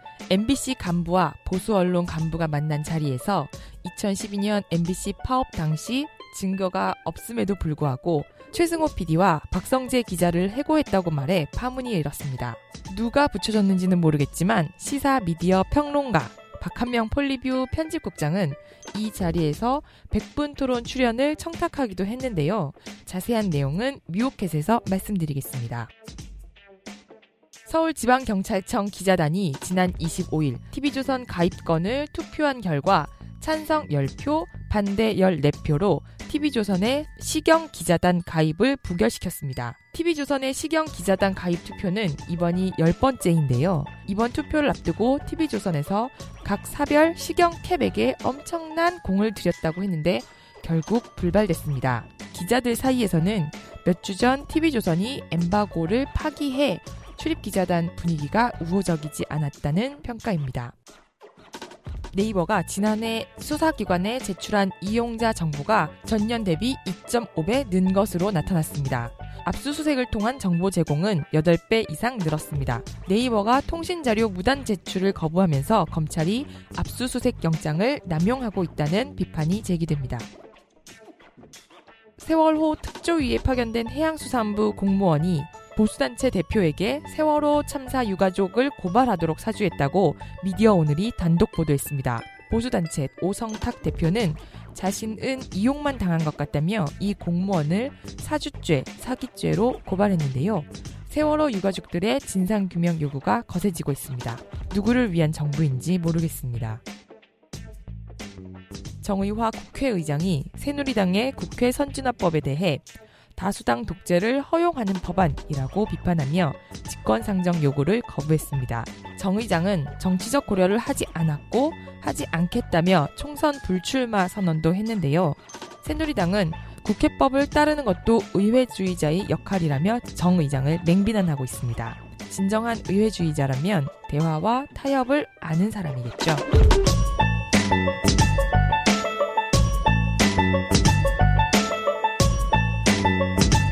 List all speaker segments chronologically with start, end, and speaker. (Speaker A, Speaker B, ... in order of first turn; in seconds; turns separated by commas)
Speaker A: 0.3-25.9, Speaker A: 27.7-60.8, Speaker A: 62.1-80.3, Speaker A: 82.2-106.8, Speaker A: 109.0-136.4